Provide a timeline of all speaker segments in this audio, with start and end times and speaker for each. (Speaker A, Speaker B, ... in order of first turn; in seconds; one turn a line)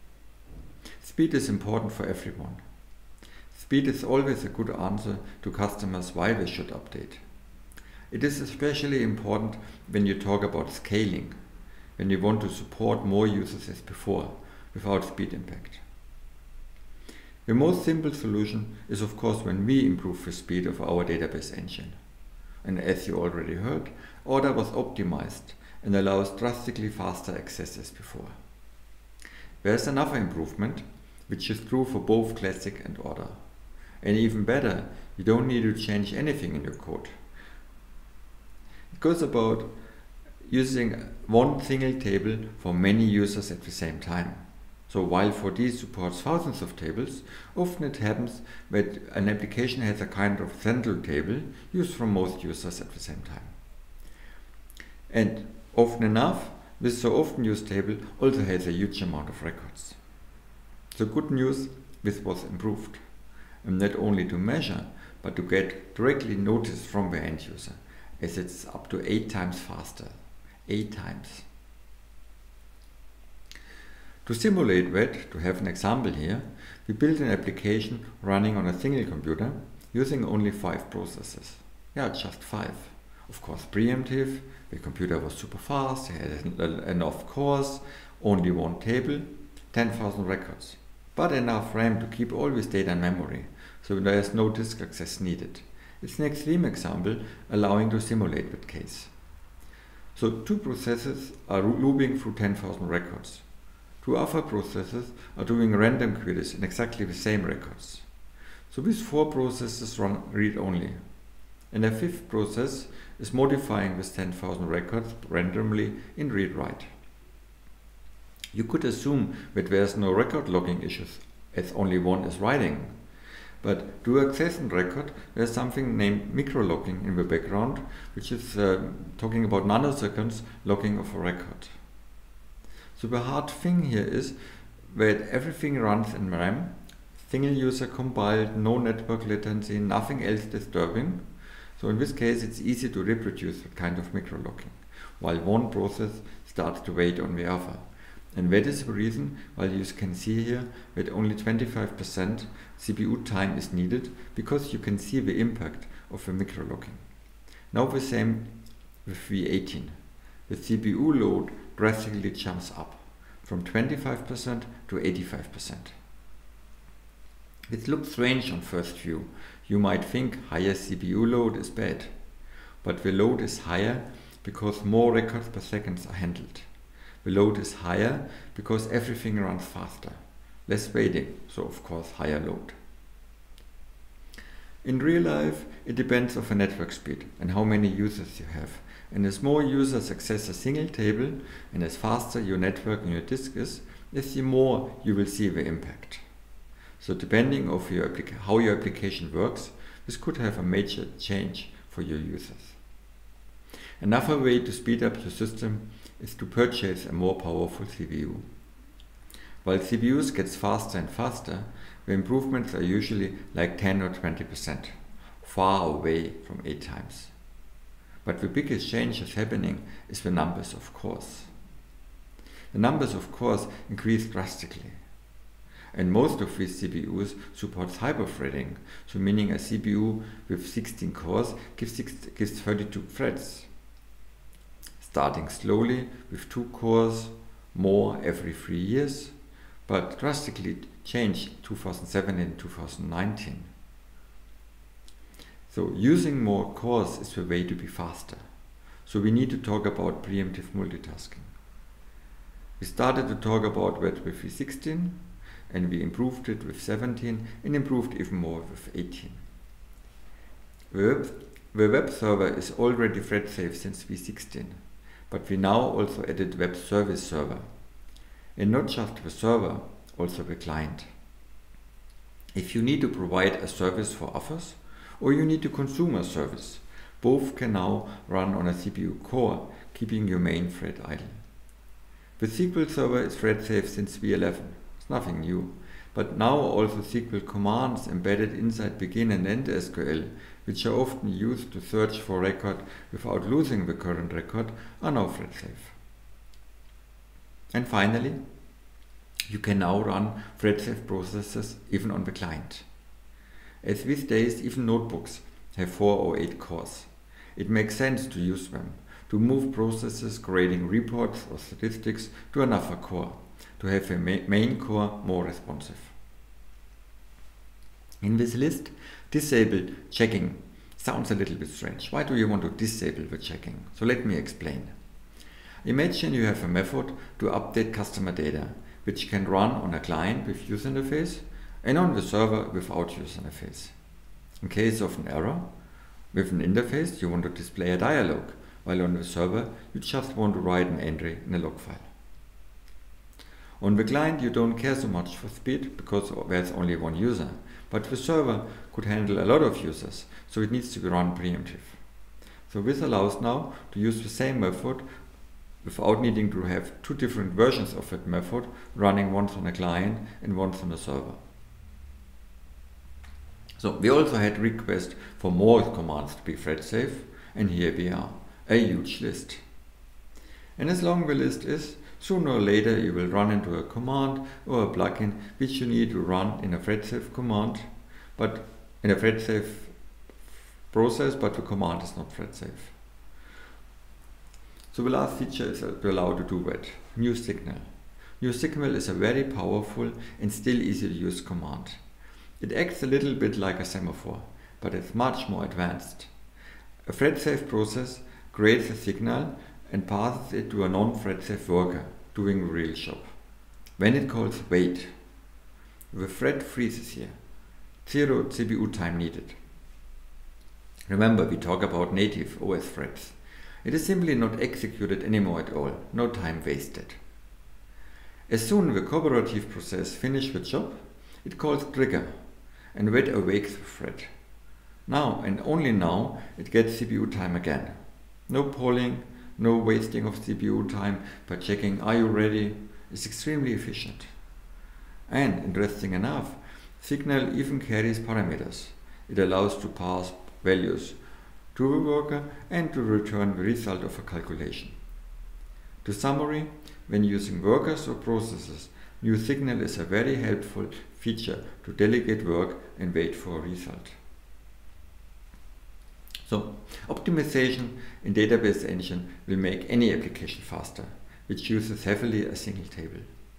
Speaker A: 1.0-2.6
Speaker A: 3.5-7.2
Speaker A: 8.1-11.3
Speaker A: 12.0-15.8
Speaker A: 17.4-21.9
Speaker A: 22.6-28.3
Speaker A: 29.6-33.4
Speaker A: 34.0-37.1
Speaker A: 38.9-39.7
Speaker A: 40.5-53.5
Speaker A: 55.1-60.0
Speaker A: 60.9-63.0
Speaker A: 63.6-70.1
Speaker A: 70.7-71.5
Speaker A: 74.2-99.1
Speaker A: 100.1-103.4
Speaker A: 104.0-108.0
Speaker A: 108.7-111.0
Speaker A: 111.7-116.9
Speaker A: 118.5-122.9
Speaker A: 123.6-131.7
Speaker A: 132.9-134.3
Speaker A: 134.9-141.2
Speaker A: 141.8-157.0
Speaker A: 157.7-158.5
Speaker A: 159.0-159.9
Speaker A: 160.5-165.9
Speaker A: 167.7-172.1
Speaker A: 172.8-176.7
Speaker A: 177.2-182.8
Speaker A: 184.8-196.2
Speaker A: 197.0-202.8
Speaker A: 204.0-208.4
Speaker A: 209.6-217.3
Speaker A: 218.2-221.5
Speaker A: 222.7-225.0
Speaker A: 225.9-233.7
Speaker A: 235.0-239.3
Speaker A: 239.9-243.7
Speaker A: 245.7-248.4
Speaker A: 249.1-251.5
Speaker A: 252.8-255.2
Speaker A: 255.7-259.4
Speaker A: 260.9-264.8
Speaker A: 265.3-267.6
Speaker A: 268.6-271.1
Speaker A: 272.5-281.4
Speaker A: 282.4-295.9
Speaker A: 297.7-298.4
Speaker A: 299.5-302.9
Speaker A: 303.8-316.1
Speaker A: 318.2-324.9
Speaker A: 325.8-333.9
Speaker A: 334.6-335.7
Speaker A: 336.3-342.1
Speaker A: 343.8-352.0
Speaker A: 352.7-355.0
Speaker A: 355.8-361.4
Speaker A: 363.8-369.6
Speaker A: 370.8-379.9
Speaker A: 380.9-382.9
Speaker A: 384.9-387.9
Speaker A: 388.4-392.0
Speaker A: 392.6-396.3
Speaker A: 397.0-403.2
Speaker A: 404.0-405.1
Speaker A: 406.1-407.3
Speaker A: 408.0-409.6
Speaker A: 411.1-417.2
Speaker A: 418.5-422.3
Speaker A: 422.9-424.3
Speaker A: 425.1-428.0
Speaker A: 428.5-434.3
Speaker A: 435.3-441.2
Speaker A: 441.7-444.9
Speaker A: 446.0-454.1
Speaker A: 456.4-463.3